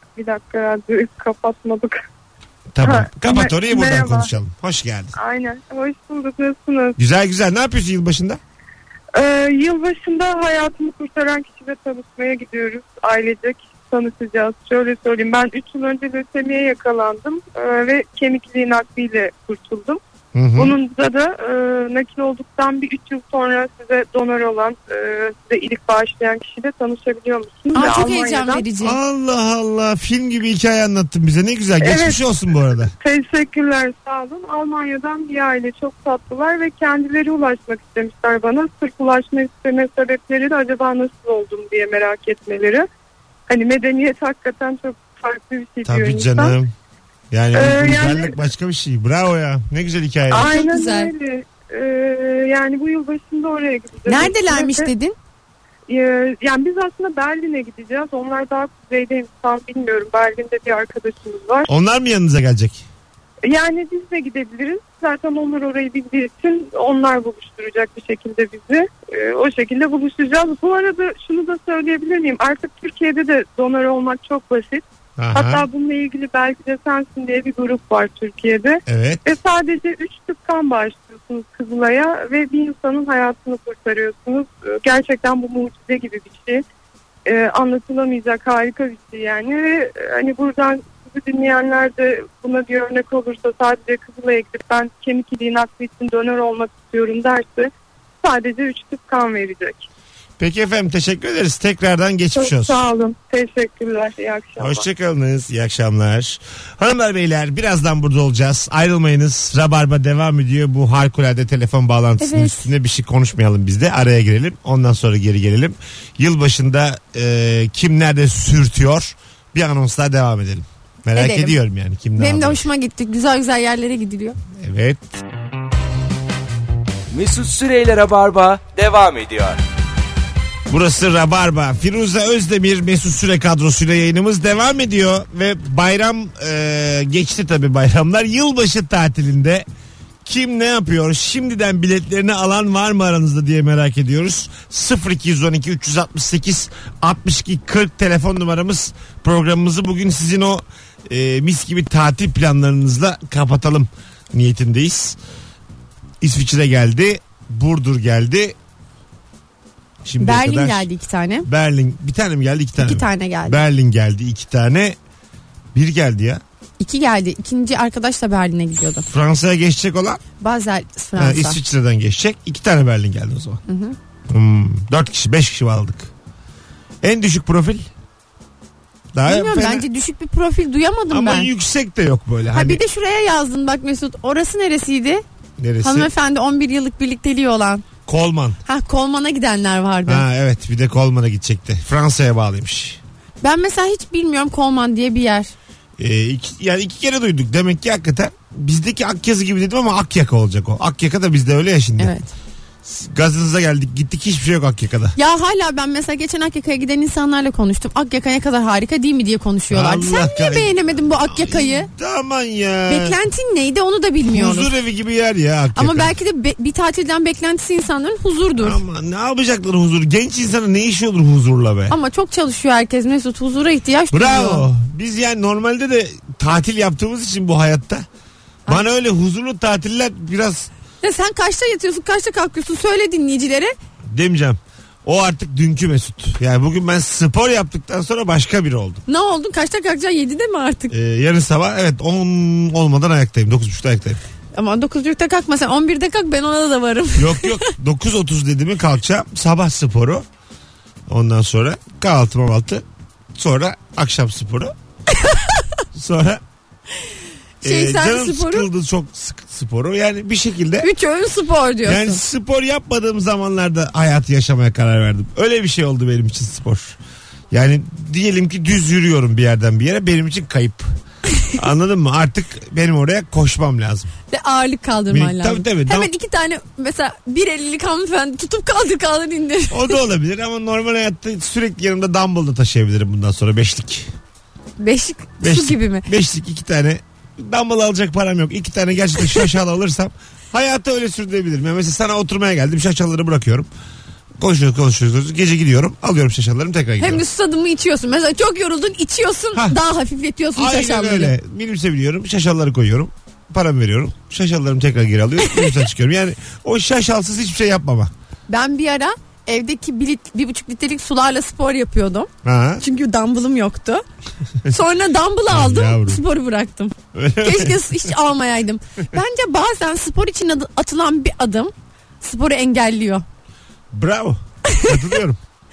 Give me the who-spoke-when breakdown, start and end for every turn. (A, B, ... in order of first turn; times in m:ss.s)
0:00.2-0:02.0 A
0:02.7-0:05.2 B
0:02.8-0:04.3 A
0:05.2-0:07.0 A
0:07.0-0:08.4 B
0:09.1-0:20.0 A
0:20.3-0:20.8 B
0:20.6-0:28.6 A
0:27.7-0:29.0 C
0:28.8-0:32.9 B
0:31.8-0:32.2 A
0:33.0-0:42.9 A
0:43.5-0:46.6 A
0:45.8-0:46.7 B
0:47.3-0:50.5 B
0:47.5-0:48.3 A
0:50.3-0:54.9 A
0:50.4-0:51.1 C
0:54.1-0:55.2 C
0:55.9-1:01.7 A
1:01.7-1:02.9 B
1:03.4-1:26.6 A
1:15.2-1:15.6 B
1:18.9-1:19.2 B
1:27.2-1:37.7 A
1:38.2-1:39.9 A
1:40.4-1:42.8 B
1:42.4-1:44.8 A
1:44.6-2:02.6 B
1:52.2-1:52.7 C
2:01.1-2:01.6 C
2:02.2-2:04.4 C
2:04.6-2:05.2 B
2:07.1-2:09.6 D
2:10.7-2:19.6 B
2:20.2-2:35.2 B
2:36.2-2:38.6 B
2:40.0-2:40.9 B
2:40.2-2:41.5 C
2:41.4-2:45.0 B
2:42.8-2:43.6 C
2:45.7-2:46.4 B
2:46.8-2:49.1 C
2:49.1-2:50.2 B
2:50.4-2:51.6 C
2:51.2-2:53.6 B
2:53.7-2:54.0 C
2:54.3-2:56.1 B
2:57.0-2:57.9 B
2:59.1-2:59.9 B
2:59.2-3:01.5 C
3:01.1-3:02.8 B
3:02.5-3:05.2 C
3:05.6-3:06.1 B
3:05.8-3:07.8 C
3:08.1-3:08.6 B
3:08.6-3:10.2 C
3:10.1-3:13.0 B
3:13.4-3:15.5 C
3:16.0-3:22.1 B
3:22.0-3:22.3 C
3:22.8-3:25.2 B
3:25.2-3:31.9 C
3:29.7-3:33.2 B
3:32.9-3:34.7 C
3:34.2-3:36.1 B
3:35.8-3:38.8 C
3:38.6-3:41.9 B
3:41.9-3:44.7 C
3:44.1-3:48.0 B
3:48.7-3:50.7 B
3:51.0-3:53.7 C
3:54.1-3:59.0 B
3:59.1-4:00.9 C
4:00.9-4:04.2 B
4:04.6-4:07.7 C
4:07.2-4:10.2 B
4:11.1-4:14.7 B
4:15.2-4:15.6 C
4:15.9-4:16.4 B
4:17.6-4:20.9 B
4:17.6-4:18.7 C
4:20.8-4:22.2 C
4:21.9-4:27.0 B
4:27.5-4:30.9 B
4:31.6-4:34.1 B
4:34.3-4:40.0 C
4:35.1-4:36.1 B
4:39.7-4:44.1 B
4:44.8-4:46.1 C
4:45.4-4:53.7 B
4:54.4-4:57.2 B
4:57.0-5:01.3 C
5:00.6-5:08.1 B
5:05.5-5:05.8 C
5:08.5-5:12.3 C
5:12.4-5:12.8 B
5:12.8-5:14.0 C
5:14.7-5:23.2 C
5:15.5-5:16.2 B
5:17.1-5:17.8 B
5:23.9-5:25.4 B
5:24.7-5:25.0 C